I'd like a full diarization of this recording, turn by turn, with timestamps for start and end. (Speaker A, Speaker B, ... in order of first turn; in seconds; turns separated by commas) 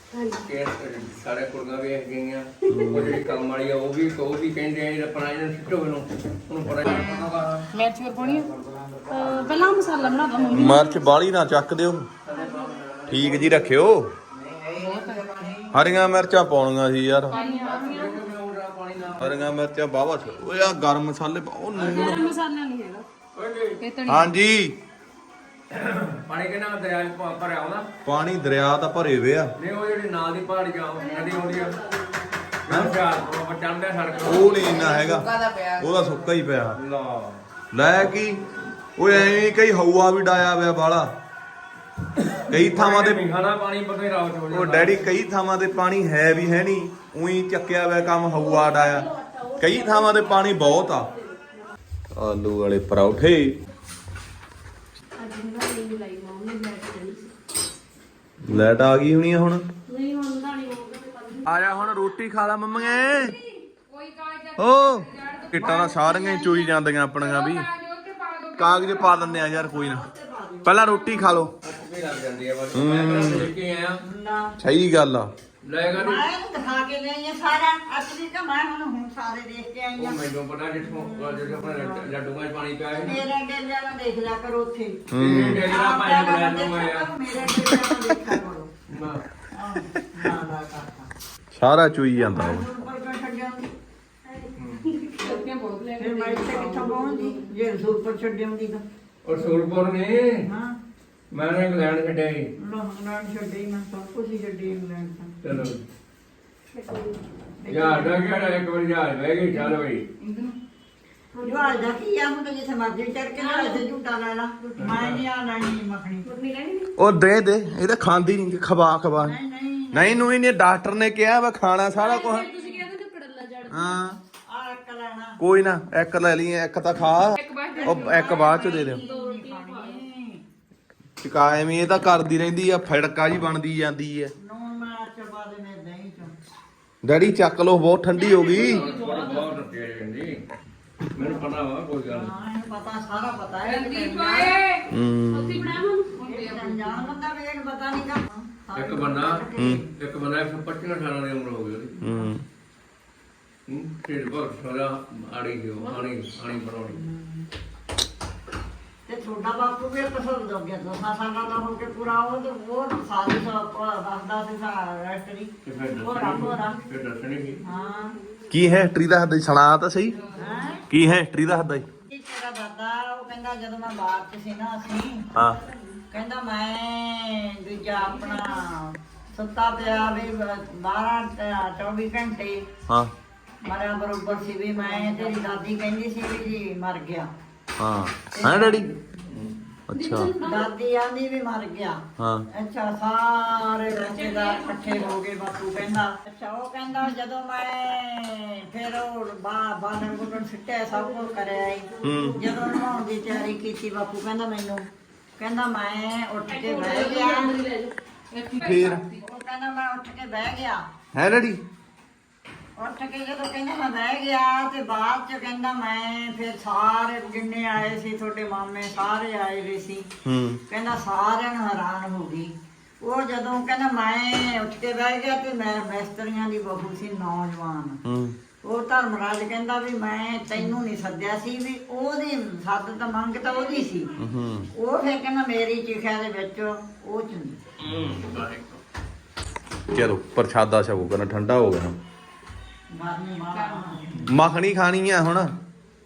Speaker A: 0.1-0.5, Speaker B: 0.5-7.7, Speaker C: 2.7-3.1, Speaker D: 6.9-8.5, Speaker A: 9.1-11.1, Speaker C: 10.5-12.1, Speaker B: 12.3-13.8, Speaker C: 13.1-14.1, Speaker B: 14.4-15.1, Speaker E: 14.8-15.6, Speaker D: 14.8-15.6, Speaker C: 15.7-17.4, Speaker A: 17.3-18.2, Speaker D: 17.3-18.0, Speaker B: 17.4-19.5, Speaker C: 19.2-22.2, Speaker B: 21.7-22.3, Speaker A: 21.8-23.1, Speaker B: 23.4-23.8, Speaker D: 23.8-24.3, Speaker C: 24.1-24.8, Speaker B: 25.7-27.9, Speaker C: 28.1-29.5, Speaker B: 29.6-31.8, Speaker A: 31.0-32.3, Speaker B: 32.6-36.2, Speaker C: 32.7-33.0, Speaker A: 34.1-35.0, Speaker C: 34.2-36.8, Speaker B: 36.8-37.4, Speaker C: 37.7-38.4, Speaker C: 39.0-41.1, Speaker B: 39.1-39.4, Speaker B: 42.2-45.0, Speaker C: 42.5-43.2, Speaker C: 44.5-49.1, Speaker A: 48.3-51.8, Speaker C: 49.6-51.1, Speaker C: 52.2-53.6, Speaker A: 55.2-57.3, Speaker C: 58.5-59.6, Speaker A: 59.9-62.2, Speaker C: 61.5-63.3, Speaker A: 62.7-63.5, Speaker D: 63.9-69.3, Speaker C: 64.6-67.7, Speaker C: 68.6-70.0, Speaker E: 69.1-71.4, Speaker C: 70.6-71.5, Speaker B: 71.6-74.0, Speaker C: 72.7-73.5, Speaker E: 74.0-74.5, Speaker C: 74.6-75.3, Speaker B: 75.6-76.3, Speaker E: 75.9-80.2, Speaker B: 80.0-83.2, Speaker E: 80.8-82.1, Speaker E: 82.9-88.7, Speaker C: 85.1-85.6, Speaker B: 85.2-87.1, Speaker B: 88.9-89.2, Speaker E: 89.5-91.1, Speaker C: 91.5-92.7, Speaker E: 92.2-93.7, Speaker A: 94.2-95.5, Speaker B: 94.6-94.8, Speaker D: 95.2-97.5, Speaker E: 96.0-98.8, Speaker B: 99.2-100.5, Speaker E: 100.5-100.7, Speaker B: 101.3-102.5, Speaker E: 102.6-105.3, Speaker B: 105.4-105.8, Speaker A: 106.7-107.2, Speaker E: 107.6-108.3, Speaker B: 107.7-110.1, Speaker E: 110.2-110.5, Speaker A: 111.3-112.0, Speaker E: 111.4-116.3, Speaker A: 113.4-113.8, Speaker B: 114.8-115.2, Speaker A: 116.2-117.0, Speaker C: 117.0-119.3, Speaker E: 119.2-120.3, Speaker C: 119.9-122.5, Speaker A: 121.9-124.0, Speaker E: 122.2-122.9, Speaker C: 123.7-124.2, Speaker E: 124.5-125.4, Speaker C: 125.4-129.0, Speaker D: 127.4-128.4, Speaker E: 127.7-130.4, Speaker A: 128.6-130.0, Speaker C: 131.2-134.3, Speaker E: 134.4-136.4, Speaker C: 137.0-138.8, Speaker A: 138.1-139.6, Speaker B: 138.4-140.4, Speaker B: 141.1-142.3, Speaker E: 142.1-144.6, Speaker D: 143.7-144.8, Speaker C: 144.9-145.8, Speaker A: 145.3-146.2, Speaker D: 146.2-147.1, Speaker E: 146.2-149.9, Speaker B: 148.8-151.9, Speaker C: 149.6-149.8, Speaker C: 152.0-152.4, Speaker B: 153.7-157.0, Speaker A: 155.8-156.1, Speaker E: 156.9-157.5, Speaker E: 159.1-165.5, Speaker B: 165.7-167.6, Speaker E: 166.0-166.8, Speaker E: 167.6-168.2, Speaker C: 168.5-170.2, Speaker E: 170.3-170.8, Speaker C: 170.9-171.9, Speaker E: 172.1-175.3, Speaker C: 175.3-175.6, Speaker E: 176.1-182.7, Speaker E: 183.7-187.3, Speaker C: 187.8-188.9, Speaker E: 188.3-189.4, Speaker C: 189.9-190.3, Speaker A: 189.9-190.7, Speaker E: 190.4-192.0, Speaker C: 192.2-192.5, Speaker E: 192.6-204.9, Speaker A: 194.0-195.2, Speaker A: 200.9-203.1, Speaker C: 202.0-202.4, Speaker E: 205.4-207.6, Speaker A: 206.5-207.9, Speaker D: 208.3-209.2, Speaker C: 208.6-209.0, Speaker E: 209.1-210.8, Speaker C: 211.1-211.6, Speaker E: 212.8-220.1, Speaker C: 220.2-220.6, Speaker E: 220.7-228.0, Speaker C: 228.1-228.3, Speaker E: 228.6-234.1, Speaker A: 233.6-234.1, Speaker C: 234.2-234.7, Speaker E: 234.8-237.6, Speaker B: 237.8-238.8, Speaker C: 239.9-241.9, Speaker E: 242.9-244.2, Speaker D: 243.5-244.0, Speaker C: 244.3-245.5